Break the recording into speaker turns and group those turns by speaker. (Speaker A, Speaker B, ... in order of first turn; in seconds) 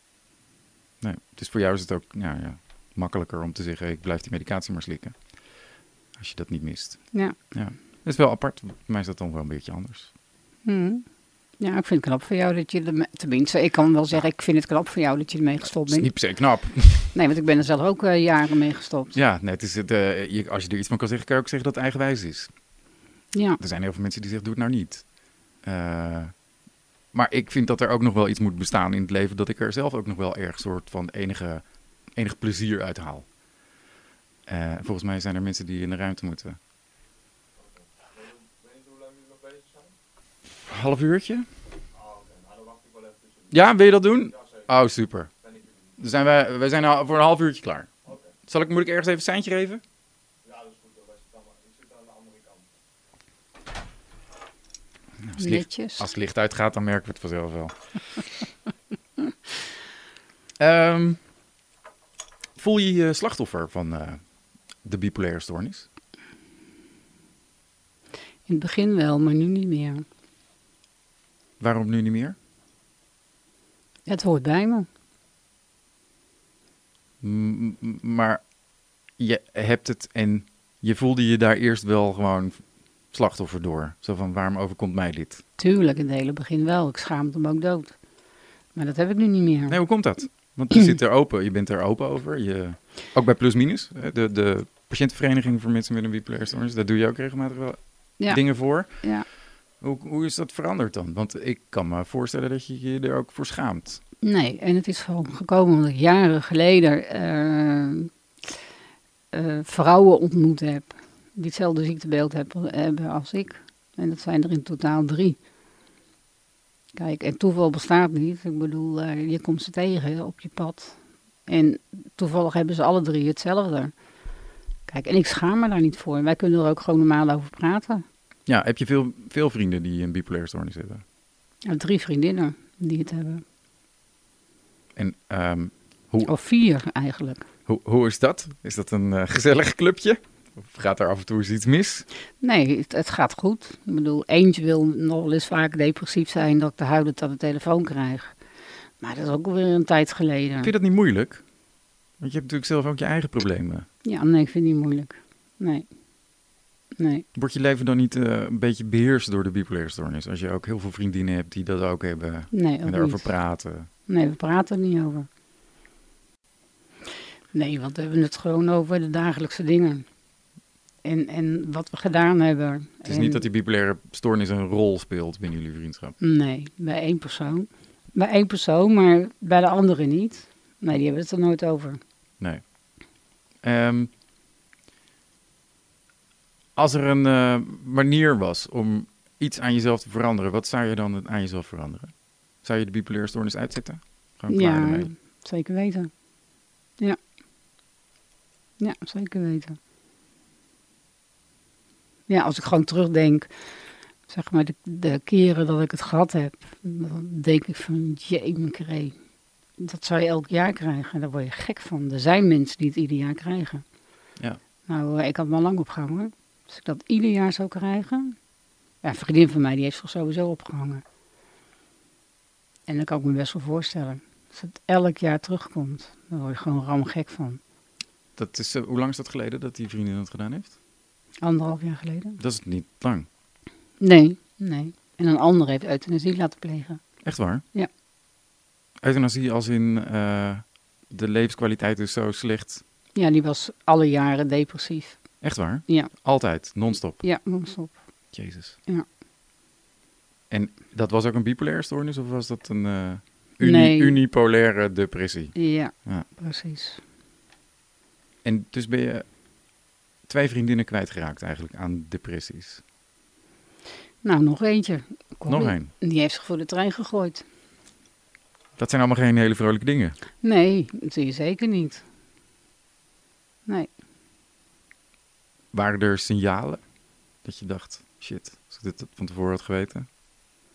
Speaker A: 1.0-5.6, 6.2-10.1, 15.9-17.1, 19.1-22.6, 23.6-26.4, 27.1-33.3, 34.5-36.6, 40.7-41.5, 43.5-45.3, 46.0-49.8, 55.2-58.2, 60.6-61.2, 62.6-65.9, 71.6-72.4, 77.2-78.5, 79.2-85.4, 89.7-99.2, 99.8-104.0, 128.5-131.0, 135.0-136.3, 137.7-142.1, 150.6-151.4, 152.2-153.9, 157.3-163.9, 173.1-176.2, 182.4-182.8, 183.6-184.1, 186.8-195.1, 228.4-230.7, 232.4-233.3, 237.2-237.6, 239.0-242.8, 245.4-247.2, 248.3-248.8, 250.5-256.3, 258.4-259.3, 260.3-262.8, 265.5-265.9, 268.8-270.2, 275.7-276.8, 277.4-280.1
Speaker B: 10.7-11.1, 11.6-16.2, 17.1-19.2, 23.3-23.6, 55.4-56.1, 68.5-70.0, 74.1-74.9, 85.6-88.0, 88.8-89.8, 98.2-99.3, 104.2-108.1, 109.3-115.4, 117.0-123.9, 124.9-128.0, 131.7-133.4, 136.3-137.5, 142.4-148.3, 149.0-150.7, 154.0-155.9, 157.0-157.2, 162.5-163.3, 164.1-165.3, 167.5-170.1, 171.0-173.4, 176.2-182.0, 194.5-196.1, 198.8-199.8, 202.3-203.5, 204.3-209.2, 209.8-213.8, 214.9-218.4, 219.0-221.0, 222.9-227.6, 231.4-232.4, 234.0-237.0, 243.2-245.2, 247.2-248.0, 253.6-254.2, 255.6-257.0, 264.2-267.4, 270.4-272.0